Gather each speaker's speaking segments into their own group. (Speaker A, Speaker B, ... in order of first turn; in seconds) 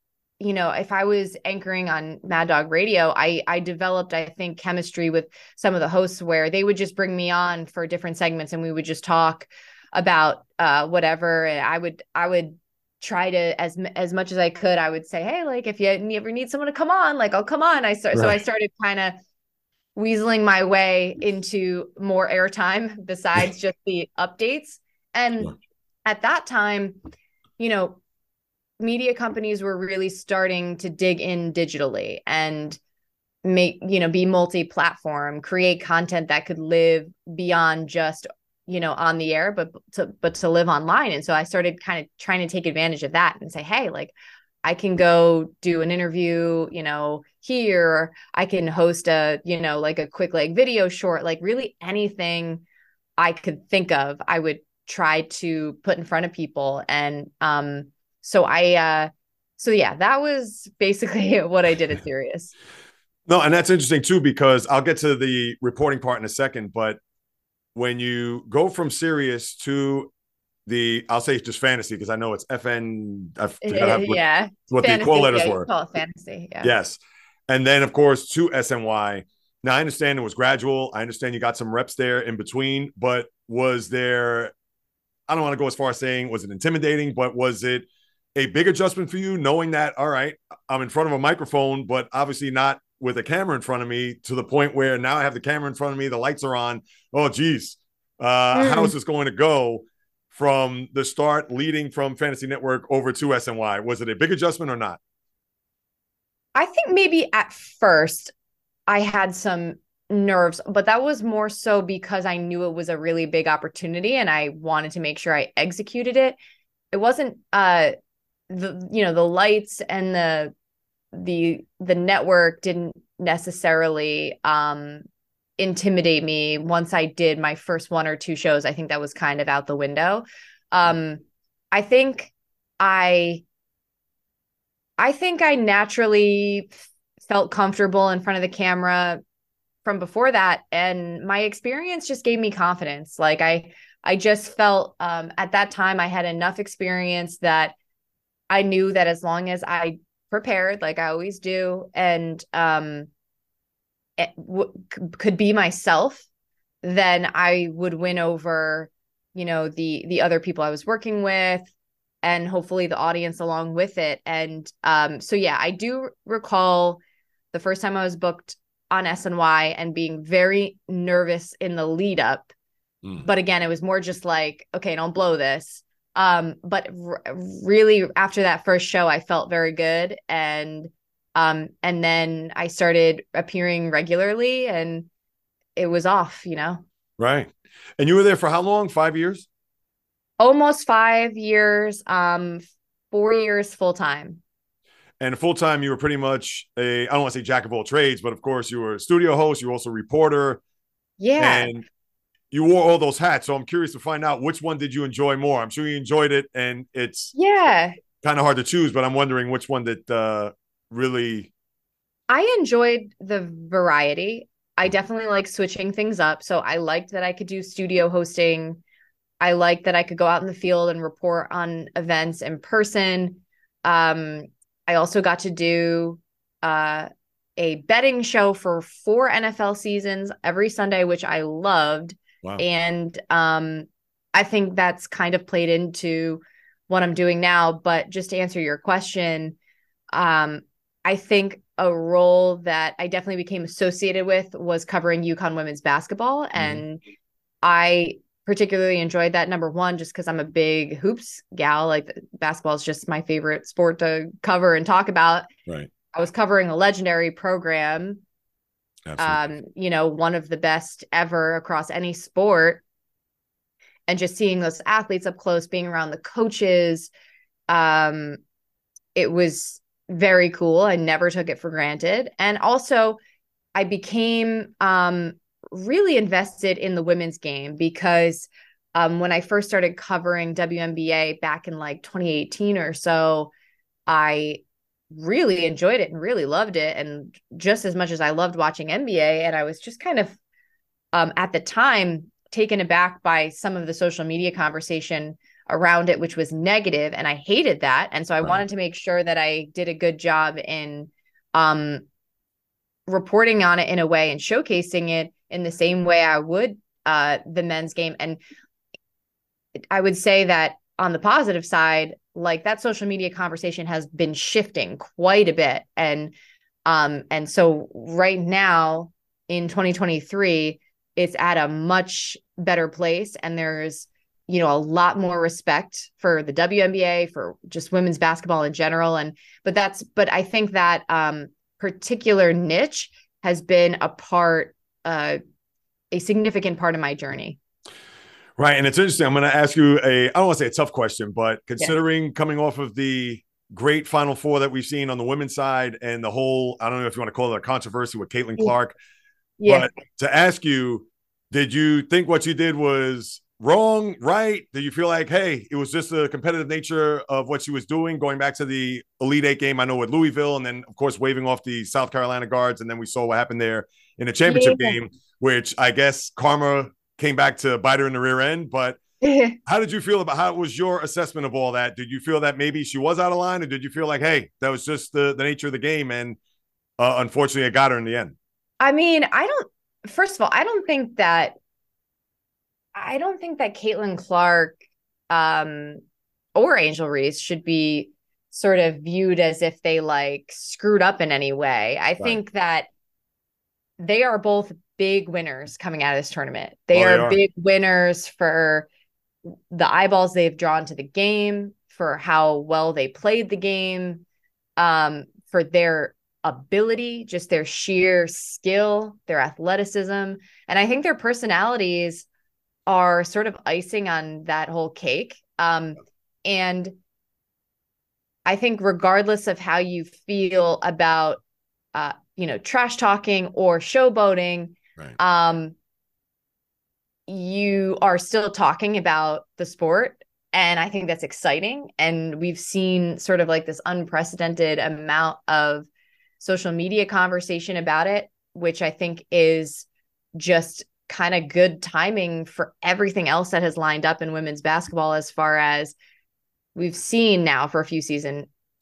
Speaker A: 0.4-19.1, 19.9-27.0, 27.6-28.0, 28.8-32.8, 33.4-52.6, 53.2-62.5, 73.6-76.8, 98.5-98.9, 106.5-108.3, 108.9-116.4, 116.9-117.9, 118.5-120.5, 121.1-125.0, 125.6-133.4, 135.0-139.2, 139.8-147.7, 148.5-153.1, 154.2-156.3, 156.8-161.7, 162.2-167.0, 167.5-172.5, 173.2-185.1, 185.8-186.8, 190.4-194.4, 201.2-201.7, 207.3-208.0, 212.3-218.8, 219.4-239.6, 240.1-247.0, 247.6-255.5, 256.1-258.2, 259.2-262.8, 264.1-267.1, 267.7-268.4, 269.1-273.2, 273.7-283.5, 284.1-290.4, 291.1-302.0, 303.1-308.4, 309.9-316.3, 316.9-335.4, 336.1-337.6, 349.6-349.9, 364.5-365.0, 369.2-369.6, 378.8-381.5, 382.9-384.8, 385.3-386.0, 386.5-392.9, 394.0-398.9, 399.5-404.2, 404.8-412.3, 412.9-416.9, 418.4-421.4, 421.9-425.7, 427.3-435.9, 436.4-445.9, 446.7-448.5
Speaker B: 63.3-67.0, 67.7-70.1, 70.7-75.7, 76.6-84.5, 85.3-105.0, 187.2-189.4, 195.2-200.6, 201.4-201.8, 202.5-207.3, 208.2-211.5, 246.6-246.8, 259.1-259.4, 338.6-348.9, 349.7-369.0, 369.6-376.4, 377.0-378.3, 396.9-397.4